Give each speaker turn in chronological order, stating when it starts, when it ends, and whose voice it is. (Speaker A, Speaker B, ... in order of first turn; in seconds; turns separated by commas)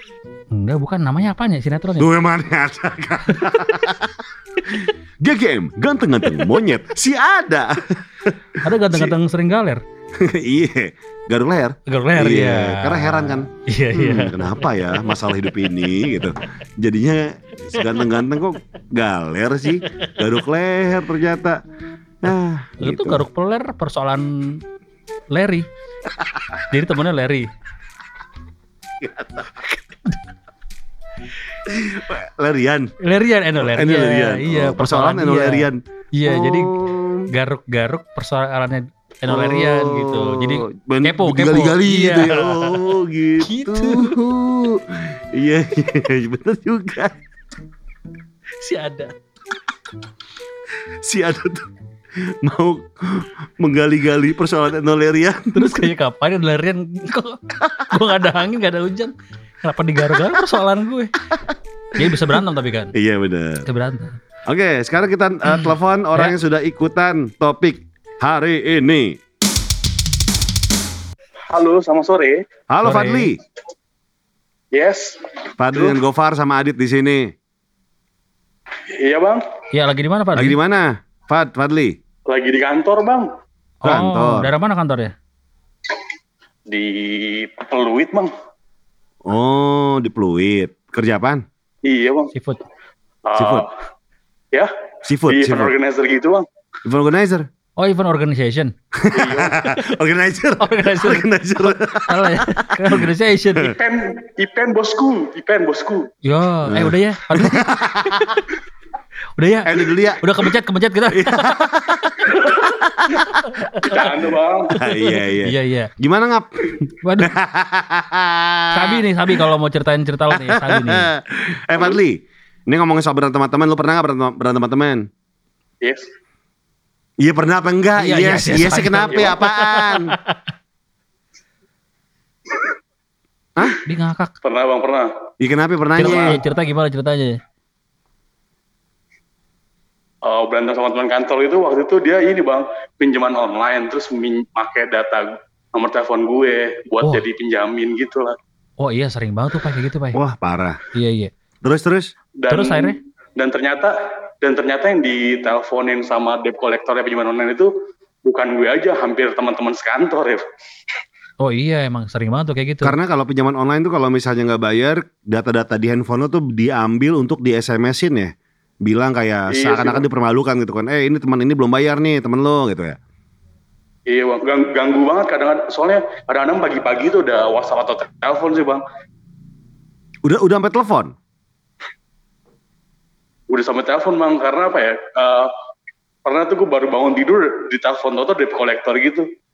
Speaker A: 0.5-2.1, Speaker B: 2.0-9.1, Speaker A: 3.3-3.7, Speaker A: 6.2-6.6, Speaker A: 8.6-9.8, Speaker B: 10.2-21.6, Speaker A: 11.8-16.2, Speaker A: 17.8-18.1, Speaker A: 19.8-20.2, Speaker B: 22.2-23.2, Speaker A: 22.8-24.6, Speaker A: 25.3-25.7, Speaker A: 26.7-27.5, Speaker B: 29.0-29.7, Speaker B: 31.7-32.9, Speaker A: 33.0-36.8, Speaker B: 33.6-37.3, Speaker A: 37.3-44.2, Speaker B: 39.3-47.2, Speaker A: 48.6-49.1, Speaker B: 51.0-51.7, Speaker B: 52.3-55.9, Speaker A: 55.5-61.1, Speaker A: 61.9-62.9, Speaker B: 62.0-62.3, Speaker B: 62.9-63.7, Speaker A: 63.6-64.2, Speaker B: 64.5-69.2, Speaker A: 65.4-66.3, Speaker C: 71.5-72.4, Speaker B: 72.7-73.4, Speaker A: 72.8-73.3, Speaker C: 74.7-76.0, Speaker B: 75.6-77.3, Speaker C: 78.9-79.4, Speaker A: 79.7-80.6, Speaker B: 80.3-82.0, Speaker C: 82.3-83.3, Speaker A: 83.8-85.1, Speaker B: 83.8-84.5, Speaker C: 86.7-88.3, Speaker B: 89.3-91.4, Speaker C: 91.8-92.3, Speaker A: 92.3-92.6, Speaker C: 93.3-93.7, Speaker B: 93.4-93.7, Speaker B: 95.0-95.7, Speaker C: 95.3-96.5, Speaker B: 96.8-97.5, Speaker A: 97.8-98.7, Speaker B: 98.9-103.7, Speaker C: 99.1-99.6, Speaker A: 100.6-103.8, Speaker C: 103.7-106.1, Speaker A: 106.2-108.5, Speaker B: 106.7-108.4, Speaker A: 109.4-111.9, Speaker B: 109.6-110.5, Speaker B: 111.1-113.9, Speaker C: 112.3-112.7, Speaker A: 113.4-114.1, Speaker C: 113.8-114.7, Speaker B: 114.7-119.0, Speaker A: 114.8-115.9, Speaker A: 117.0-117.3, Speaker A: 118.7-121.1, Speaker B: 120.3-125.1, Speaker C: 125.8-126.1, Speaker B: 127.2-130.2, Speaker A: 128.0-130.4, Speaker A: 133.8-134.3, Speaker C: 134.4-135.1, Speaker B: 135.4-136.4, Speaker A: 136.0-137.4, Speaker C: 140.2-148.3, Speaker A: 147.0-147.2, Speaker A: 148.8-150.2, Speaker B: 150.1-150.8, Speaker A: 150.9-151.3, Speaker B: 151.6-152.1, Speaker C: 152.4-157.7, Speaker A: 152.5-153.0, Speaker C: 158.2-160.4, Speaker A: 161.4-162.9, Speaker B: 162.8-168.3, Speaker B: 168.8-173.0, Speaker C: 169.5-170.0, Speaker C: 174.1-178.8, Speaker B: 180.2-181.1, Speaker C: 183.5-185.5, Speaker C: 186.2-189.3